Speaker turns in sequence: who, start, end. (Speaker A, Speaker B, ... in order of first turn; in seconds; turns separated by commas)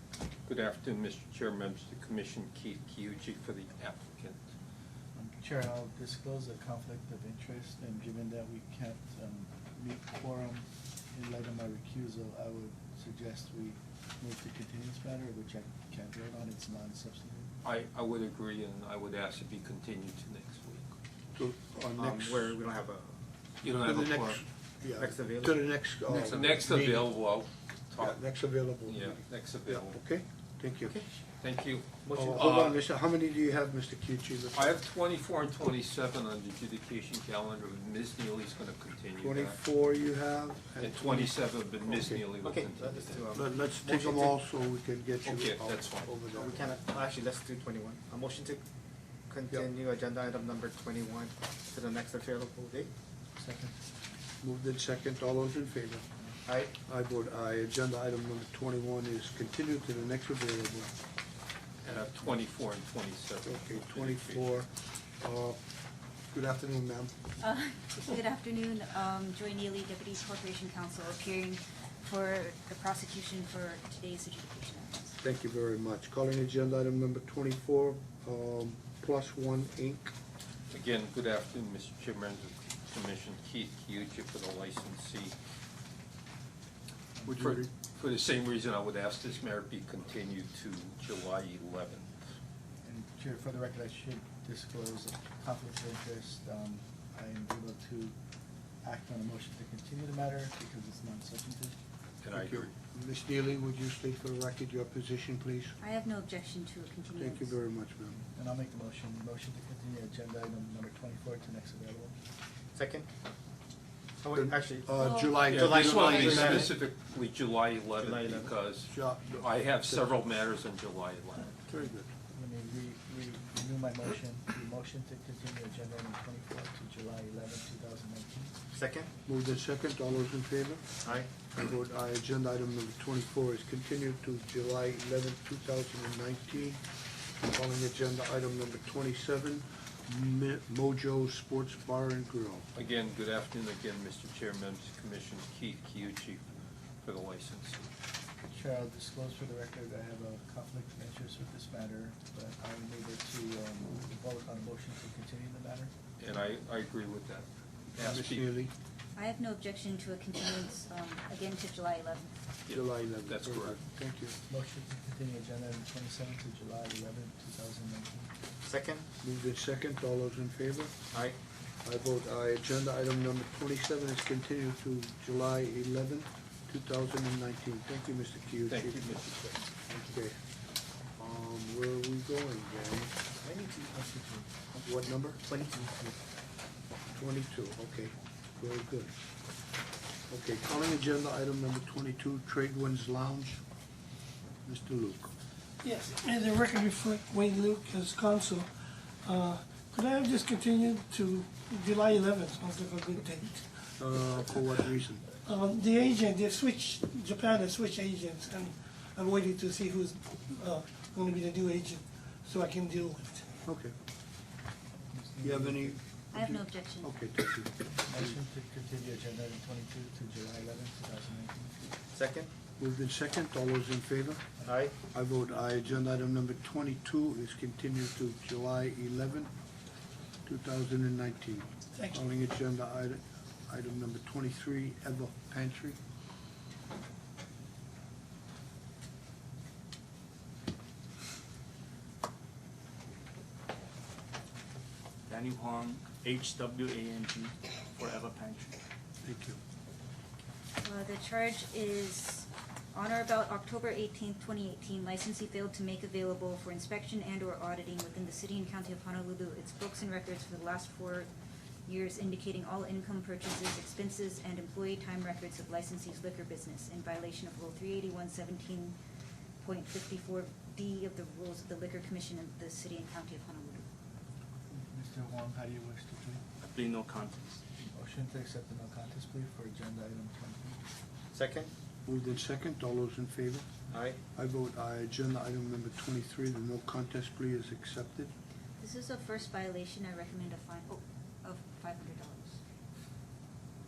Speaker A: 0.5-4.4, Speaker B: 5.2-17.5, Speaker A: 17.6-20.9, Speaker C: 21.4-22.6, Speaker D: 22.0-23.1, Speaker A: 23.6-24.4, Speaker C: 23.7-27.1, Speaker D: 24.9-25.6, Speaker A: 26.1-28.2, Speaker C: 28.0-31.0, Speaker A: 28.9-30.0, Speaker D: 30.9-31.2, Speaker A: 31.4-32.7, Speaker D: 32.0-32.7, Speaker C: 32.1-34.8, Speaker A: 34.5-39.6, Speaker C: 39.2-42.2, Speaker A: 40.8-43.2, Speaker D: 42.4-44.4, Speaker C: 43.3-46.8, Speaker A: 45.2-46.1, Speaker D: 46.3-48.6, Speaker D: 49.3-52.9, Speaker B: 53.4-53.8, Speaker C: 54.4-56.1, Speaker D: 56.5-56.7, Speaker C: 56.7-60.9, Speaker A: 61.8-64.5, Speaker C: 63.5-65.6, Speaker C: 66.3-67.1, Speaker E: 67.4-75.2, Speaker C: 75.2-80.1, Speaker A: 80.7-85.3, Speaker A: 87.3-92.1, Speaker C: 87.3-87.7, Speaker B: 92.8-98.2, Speaker B: 98.8-101.8, Speaker A: 102.2-102.7, Speaker C: 102.3-105.8, Speaker E: 105.8-107.6, Speaker C: 107.2-108.2, Speaker B: 108.1-112.1, Speaker D: 112.7-113.1, Speaker D: 114.2-116.8, Speaker C: 114.3-116.7, Speaker E: 115.0-115.4, Speaker A: 115.5-121.6, Speaker D: 118.0-118.5, Speaker C: 118.8-120.1, Speaker C: 121.6-122.1, Speaker B: 121.8-128.5, Speaker D: 128.7-129.1, Speaker C: 129.2-130.9, Speaker C: 131.4-136.8, Speaker C: 137.4-142.7, Speaker A: 142.8-146.4, Speaker A: 147.0-147.8, Speaker B: 148.5-155.9, Speaker A: 156.2-158.6, Speaker C: 158.0-158.7, Speaker E: 159.2-162.3, Speaker A: 162.7-163.8, Speaker C: 162.7-164.4, Speaker B: 164.5-168.3, Speaker D: 168.7-169.1, Speaker C: 169.2-170.9, Speaker D: 171.1-171.4, Speaker C: 171.8-179.2, Speaker A: 178.7-179.7, Speaker C: 179.9-180.4, Speaker C: 181.2-183.2, Speaker D: 183.4-183.9, Speaker B: 183.8-184.5, Speaker C: 184.8-185.4, Speaker D: 185.5-185.8, Speaker B: 185.8-186.1, Speaker C: 187.1-189.1, Speaker C: 190.3-193.6, Speaker C: 194.7-195.3, Speaker F: 195.8-204.9, Speaker C: 204.0-205.3, Speaker F: 205.4-213.5, Speaker C: 213.7-213.9, Speaker B: 215.1-216.0, Speaker C: 215.4-217.9, Speaker E: 216.4-217.1, Speaker B: 218.0-221.8, Speaker D: 222.1-222.5, Speaker C: 222.8-229.5, Speaker D: 224.7-224.9, Speaker C: 230.5-236.0, Speaker F: 231.9-232.2, Speaker G: 245.3-248.7, Speaker C: 249.2-249.6, Speaker E: 250.8-261.3, Speaker E: 261.9-269.0, Speaker E: 269.6-273.9, Speaker B: 274.7-276.4, Speaker B: 277.8-280.8, Speaker D: 281.3-281.7, Speaker C: 282.1-283.7, Speaker D: 283.9-284.2, Speaker C: 284.3-288.3, Speaker E: 288.8-292.6